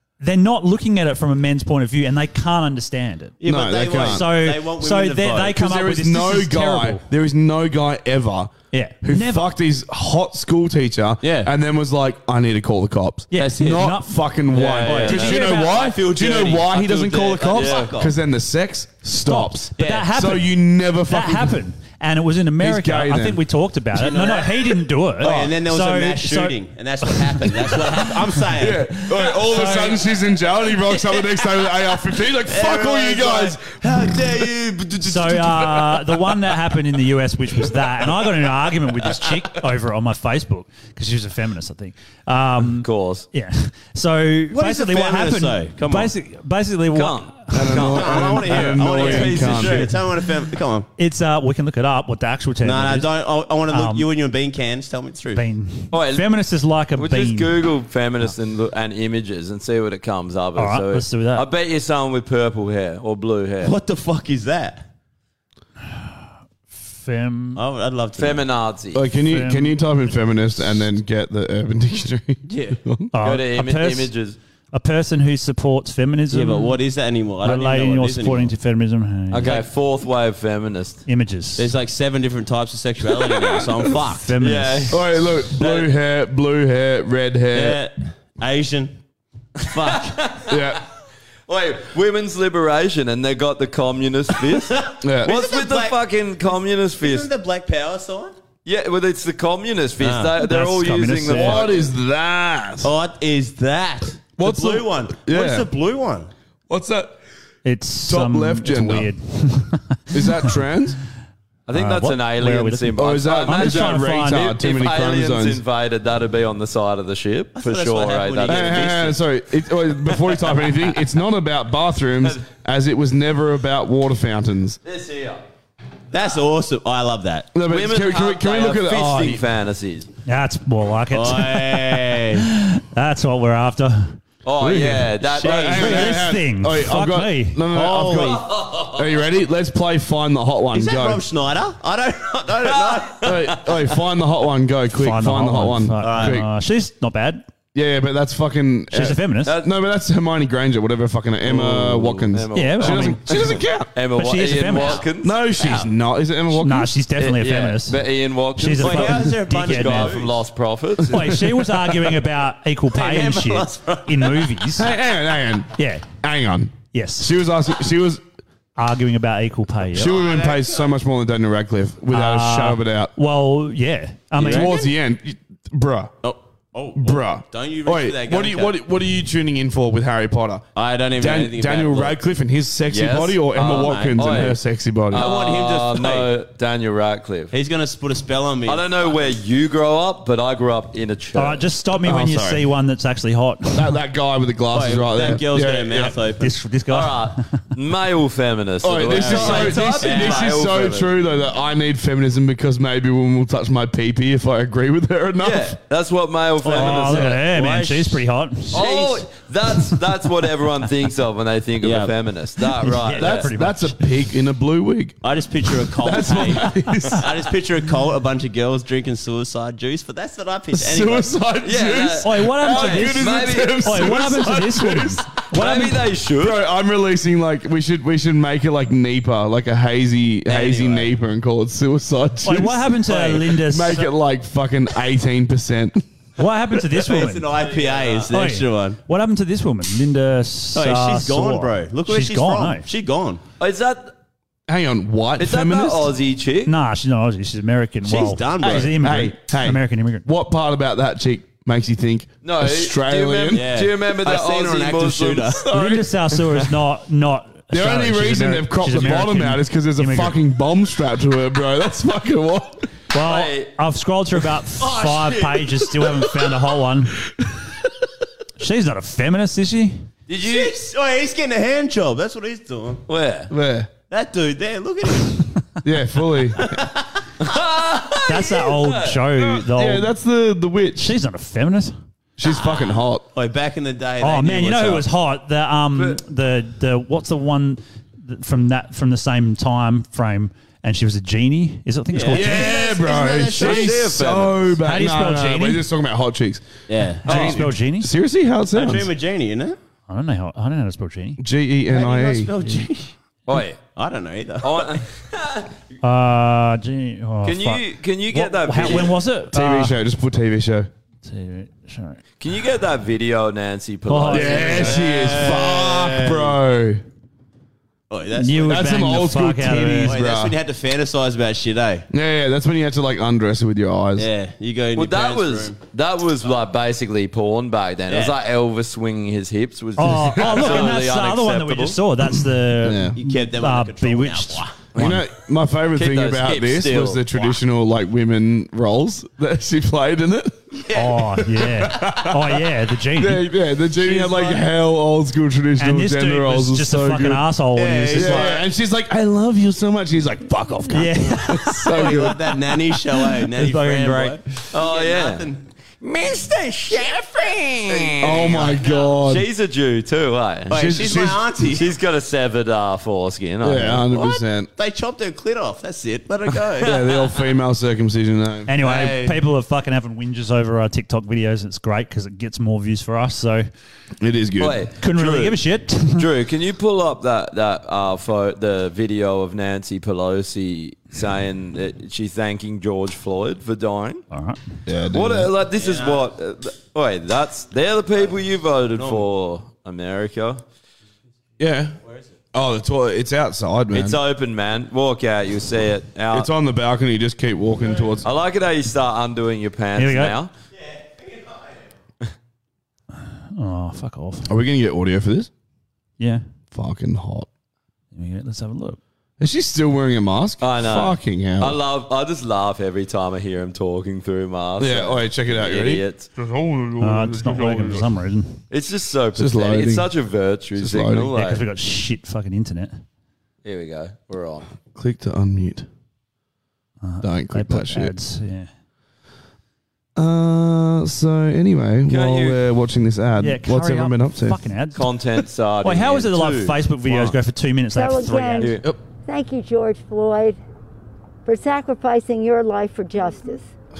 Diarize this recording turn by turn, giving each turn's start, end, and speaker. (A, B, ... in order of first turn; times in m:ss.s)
0:00.2-0:03.4 A
0:03.4-0:05.6 B
0:03.4-0:04.2 C
0:04.0-0:07.0 A
0:05.5-0:08.5 C
0:08.7-0:09.5 A
0:09.0-0:21.6 C
0:11.2-0:11.5 B
0:13.3-0:14.1 A
0:13.3-0:13.9 B
0:14.5-0:15.6 D
0:14.6-0:18.1 B
0:14.8-0:15.7 A
0:17.5-0:18.0 D
0:19.2-0:26.6 A
0:19.8-0:20.1 B
0:22.6-0:23.4 C
0:23.9-0:29.2 B
0:25.2-0:25.5 C
0:27.1-0:28.1 A
0:28.6-0:36.1 C
0:29.3-0:30.0 A
0:30.8-0:31.7 B
0:32.4-0:35.0 B
0:35.0-0:47.8 A
0:42.8-0:43.2 D
0:44.5-0:46.1 B
0:46.9-0:49.9 D
0:47.5-0:50.0 C
0:47.7-0:50.9 B
0:51.0-0:53.1 A
0:52.6-0:55.4 B
0:53.7-0:54.1 A
0:55.3-0:57.6 A
0:55.9-0:56.3 D
0:56.9-1:03.7 D
1:00.6-1:01.5 A
1:03.6-1:04.8 B
1:06.7-1:07.6 A
1:07.6-1:08.5 B
1:08.2-1:09.0 D
1:08.9-1:13.1 C
1:09.2-1:09.8 A
1:12.5-1:12.8 B
1:13.1-1:14.1 A
1:13.2-1:14.4 D
1:14.7-1:16.8 A
1:16.3-1:18.5 B
1:17.4-1:19.6 A
1:19.3-1:21.0 D
1:21.0-1:21.7 A
1:21.6-1:24.3 B
1:24.0-1:25.0 A
1:24.4-1:25.0 D
1:24.9-1:27.8 C
1:25.6-1:25.9 B
1:27.5-1:29.0 B
1:29.6-1:30.3 B
1:30.1-1:30.8 D
1:30.5-1:30.8 C
1:31.5-1:37.3 D
1:34.7-1:36.0 B
1:35.0-1:35.3 C
1:37.0-1:38.3 B
1:38.6-1:41.9 D
1:40.0-1:40.3 B
1:40.4-1:41.7 A
1:41.2-1:42.9 C
1:42.8-1:46.3 B
1:44.4-1:45.7 C
1:46.7-1:47.2 C
1:47.6-1:50.4 A
1:48.0-1:49.1 C
1:50.1-1:51.0 C
1:51.7-1:59.2 D
1:51.7-1:54.5 A
1:53.0-1:55.6 C
1:57.6-1:59.2 B
1:58.5-2:04.8 C
2:04.8-2:05.4 D
2:06.1-2:07.5 B
2:07.5-2:09.4 C
2:07.7-2:10.1 D
2:10.2-2:14.2 A
2:11.1-2:12.5 B
2:14.4-2:16.2 D
2:14.6-2:21.2 C
2:15.4-2:16.1 B
2:15.7-2:17.6 A
2:17.7-2:18.5 B
2:18.3-2:19.2 D
2:20.7-2:23.3 B
2:22.9-2:23.8 D
2:23.2-2:26.5 C
2:25.0-2:27.4 A
2:26.0-2:26.4 B
2:27.7-2:33.9 C
2:28.9-2:29.5 A
2:29.4-2:29.7 D
2:31.4-2:35.4 D
2:32.5-2:35.0 A
2:35.2-2:37.0 C
2:35.6-2:35.9 B
2:36.5-2:38.0 A
2:37.2-2:41.4 D
2:38.6-2:40.2 A
2:38.8-2:40.4 B
2:41.1-2:44.9 A
2:41.1-2:41.5 C
2:42.9-2:44.6 B
2:44.8-2:48.2 C
2:45.8-2:46.1 A
2:46.9-2:47.3 A
2:48.8-2:50.2 A
2:49.9-2:53.1 C
2:50.0-2:50.9 B
2:52.1-2:54.8 A
2:54.4-2:56.1 C
2:54.4-2:54.9 B
2:56.2-2:58.8 B
2:57.0-3:00.6 C
3:00.7-3:02.2 B
3:01.2-3:05.2 C
3:02.9-3:07.5 D
3:03.5-3:04.5 B
3:05.1-3:06.3 B
3:07.5-3:09.0 B
3:08.6-3:11.7 D
3:11.3-3:13.9 A
3:12.0-3:12.6 C
3:13.7-3:16.2 C
3:14.7-3:16.6 B
3:16.4-3:17.6 A
3:16.9-3:21.1 D
3:18.8-3:25.8 C
3:19.0-3:21.1 B
3:25.4-3:27.4 D
3:26.6-3:29.0 A
3:26.7-3:28.2 B
3:28.7-3:33.5 D
3:31.8-3:32.1 B
3:32.8-3:34.0 A
3:33.1-3:35.2 C
3:35.2-3:41.4 B
3:36.0-3:37.3 C
3:40.7-3:45.4 C
3:41.6-3:43.9 D
3:42.2-3:46.1 A
3:45.5-3:46.6 D
3:46.4-3:56.0 C
3:50.4-3:51.1 B
3:52.4-3:54.1 A
3:56.4-3:57.5 A
3:57.0-3:59.0 B
3:57.8-3:58.2 D
3:58.3-4:02.9 A
4:00.7-4:03.4 B
4:03.6-4:04.1 D
4:04.7-4:06.1 C
4:05.4-4:06.7 D
4:06.6-4:10.2 A
4:08.0-4:09.0 B
4:08.6-4:13.6 C
4:12.4-4:16.6 D
4:13.5-4:15.6 B
4:15.7-4:20.4 A
4:15.7-4:16.0 C
4:17.7-4:22.9 C
4:23.1-4:27.2 A
4:23.2-4:23.7 D
4:28.6-4:30.1 A
4:30.3-4:30.7 D
4:30.3-4:33.0 B
4:33.1-4:33.5 D
4:33.5-4:33.9 C
4:34.1-4:35.4 B
4:35.8-4:36.8 C
4:36.7-4:37.0 B
4:37.4-4:39.4 D
4:38.2-4:40.1 A
4:39.5-4:41.1 C
4:41.0-4:41.9 A
4:42.4-4:43.2 C
4:42.4-4:45.0 B
4:44.2-4:52.8 A
4:45.9-4:46.2 D
4:52.1-4:54.1 B
4:52.3-4:56.7 C
4:53.5-4:54.8 D
4:54.8-4:55.8 A
4:56.9-4:57.3 B
4:57.2-4:59.1 C
4:57.2-4:58.1 A
4:57.2-4:57.6 D
4:58.7-4:59.8 B
5:00.1-5:01.4 A
5:01.4-5:02.5 C
5:01.9-5:03.1 B
5:03.5-5:03.8 D
5:03.9-5:05.0 B
5:04.6-5:05.7 D
5:06.0-5:10.0 A
5:07.4-5:09.2 D
5:09.5-5:10.9 C
5:11.2-5:12.2 A
5:12.4-5:15.0 D
5:14.1-5:15.0 A
5:14.3-5:17.0 C
5:14.6-5:16.6 B
5:18.1-5:19.2 B
5:18.4-5:20.2 A
5:18.7-5:20.5 C
5:20.0-5:22.1 B
5:22.1-5:24.3 C
5:24.2-5:25.8 B
5:24.9-5:32.0 D
5:28.1-5:28.3 B
5:30.0-5:35.2 A
5:30.4-5:30.7 C
5:32.8-5:33.2 C
5:33.2-5:34.8 B
5:35.0-5:35.2 D
5:35.0-5:40.8 C
5:35.9-5:37.3 D
5:40.9-5:43.5 A
5:41.4-5:42.6 C
5:43.2-5:47.4 C
5:44.0-5:44.6 B
5:45.8-5:48.5 A
5:47.7-5:48.6 B
5:48.1-5:52.4 C
5:50.9-5:52.1 A
5:51.9-5:55.6 B
5:53.6-5:54.4 A
5:54.7-6:00.8 D
5:57.9-5:59.1 B
5:58.2-5:59.4 C
6:00.7-6:01.9 B
6:00.7-6:01.6 C
6:01.7-6:04.4 D
6:03.6-6:04.7 C
6:04.8-6:07.0 B
6:06.8-6:08.7 C
6:08.7-6:13.6 A
6:08.8-6:09.4 B
6:14.2-6:14.8 C
6:14.6-6:24.2 D
6:15.0-6:16.3 A
6:24.3-6:24.6 A
6:24.8-6:25.5 C
6:25.1-6:30.6 D
6:25.8-6:26.3 B
6:28.9-6:29.2 B
6:31.6-6:32.0 C
6:32.0-6:32.3 B
6:32.5-6:34.2 C
6:33.9-6:36.5 D
6:36.3-6:38.3 C
6:38.2-6:40.5 D
6:40.0-6:40.4 A
6:40.7-6:41.9 B
6:43.4-6:44.5 A
6:44.5-6:45.5 C
6:46.7-6:47.5 C
6:48.1-6:49.0 A
6:49.4-6:51.8 C
6:50.6-6:56.3 D
6:54.8-6:58.0 C
6:57.0-6:58.6 A
6:58.7-7:01.6 D
6:59.3-7:00.1 C
7:00.8-7:01.3 C
7:01.3-7:03.0 A
7:03.6-7:04.7 D
7:04.9-7:05.9 C
7:07.0-7:08.7 A
7:07.2-7:08.1 C
7:10.2-7:14.6 C
7:12.1-7:12.6 D
7:13.4-7:15.0 A
7:14.9-7:17.3 D
7:15.8-7:18.8 A
7:17.9-7:20.6 E
7:18.6-7:18.9 D
7:21.4-7:23.7 E